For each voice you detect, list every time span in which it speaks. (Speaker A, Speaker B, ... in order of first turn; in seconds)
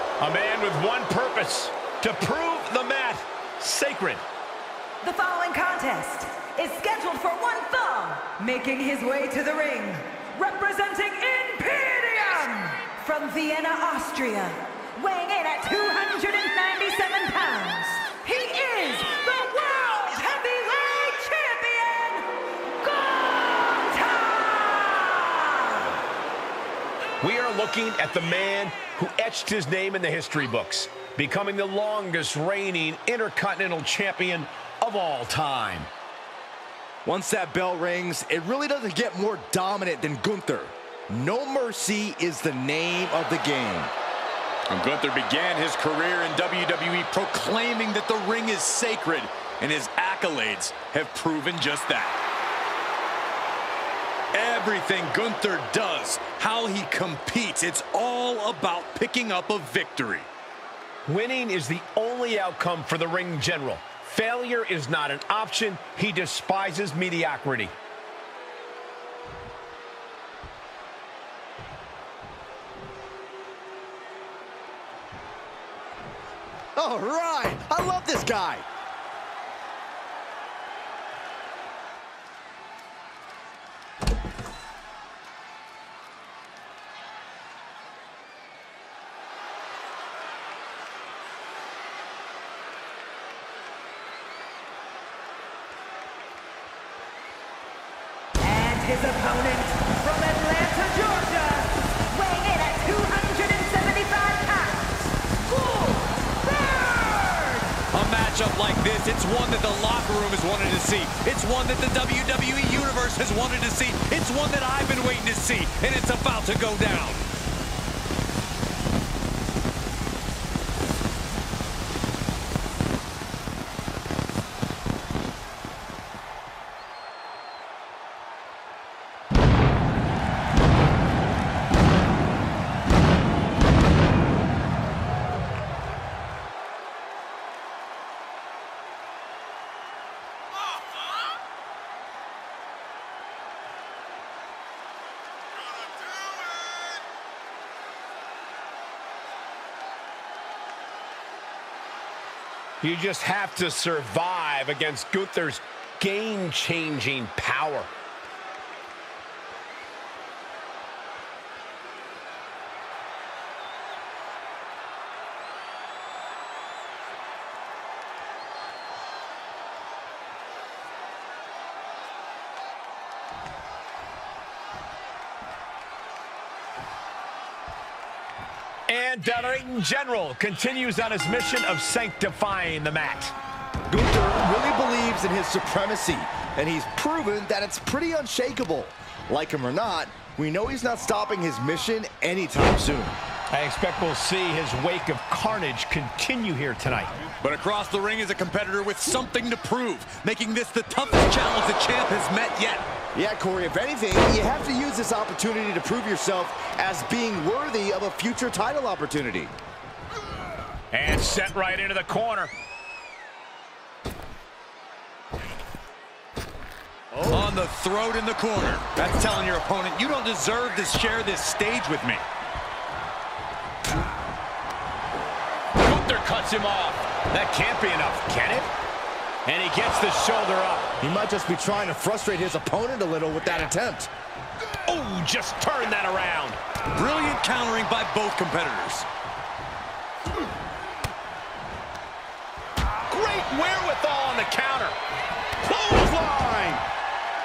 Speaker A: 0.2-4.2, 27.2-35.9, 61.1-67.8, 152.8-157.9, 178.9-183.3, 193.5-197.1, 210.9-212.5, 225.8-228.7, 229.4-230.9, 234.8-236.6, 243.1-245.0
Speaker B: 5.0-26.0, 98.4-107.8
Speaker C: 37.0-43.9, 76.8-78.7, 183.9-193.2, 203.2-209.5, 217.1-217.5, 231.0-234.1, 245.6-246.8
Speaker D: 44.7-52.2, 54.3-60.3, 107.9-117.2, 197.4-202.9, 217.3-222.2, 236.9-239.1